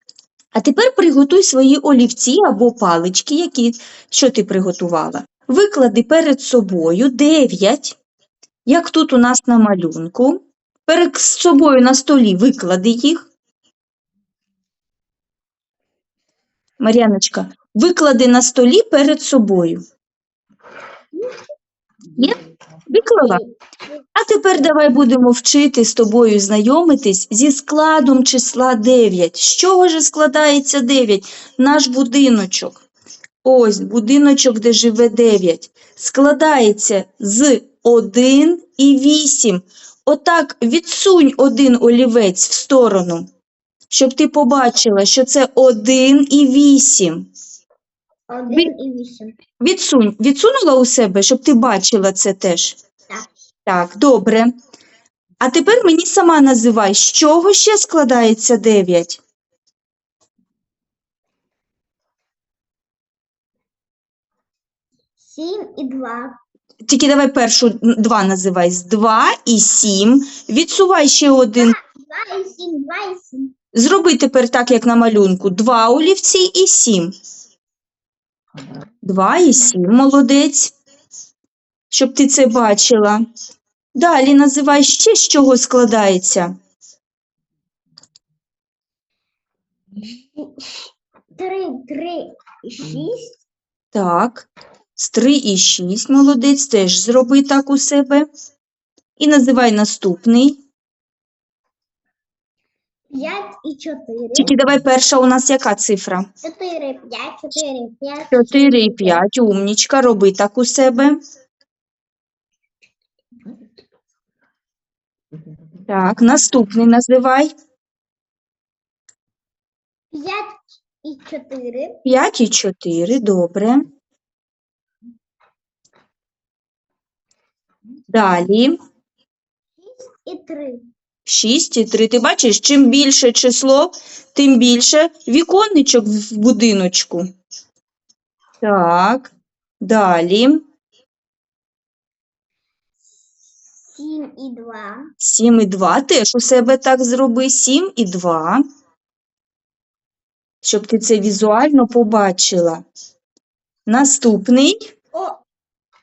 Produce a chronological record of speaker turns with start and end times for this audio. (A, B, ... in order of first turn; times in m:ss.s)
0:00.5-0:08.0 A
0:08.7-0:13.3 A
0:16.8-0:19.8 A
0:21.1-0:21.4 B
0:22.9-0:23.4 A
0:23.3-0:24.0 B
0:24.2-0:32.8 A
0:33.4-0:43.3 A
0:43.9-0:47.3 A
0:48.3-0:49.4 B
0:49.6-0:52.8 A
0:53.7-0:54.5 A
0:55.4-0:59.2 A
1:05.2-1:06.4 B
1:06.9-1:11.8 A
1:11.6-1:13.5 B
1:13.7-1:17.1 A
1:19.0-1:20.7 A
1:21.9-1:23.2 A
1:24.0-1:26.5 A
1:30.0-1:33.4 B
1:33.9-1:38.3 A
1:39.2-1:40.6 A
1:43.1-1:44.6 B
1:44.3-1:46.3 A
1:46.4-1:49.2 B
1:48.3-1:51.2 A
1:55.9-1:57.5 A
2:00.1-2:02.0 B
2:02.0-2:03.8 A
2:08.1-2:08.8 A
2:09.8-2:10.9 B
2:11.3-2:17.3 A
2:18.6-2:19.3 A
2:19.8-2:20.6 A
2:23.9-2:25.1 B
2:25.2-2:28.6 A
2:30.6-2:32.8 A
2:33.9-2:34.8 A
2:35.1-2:35.4 B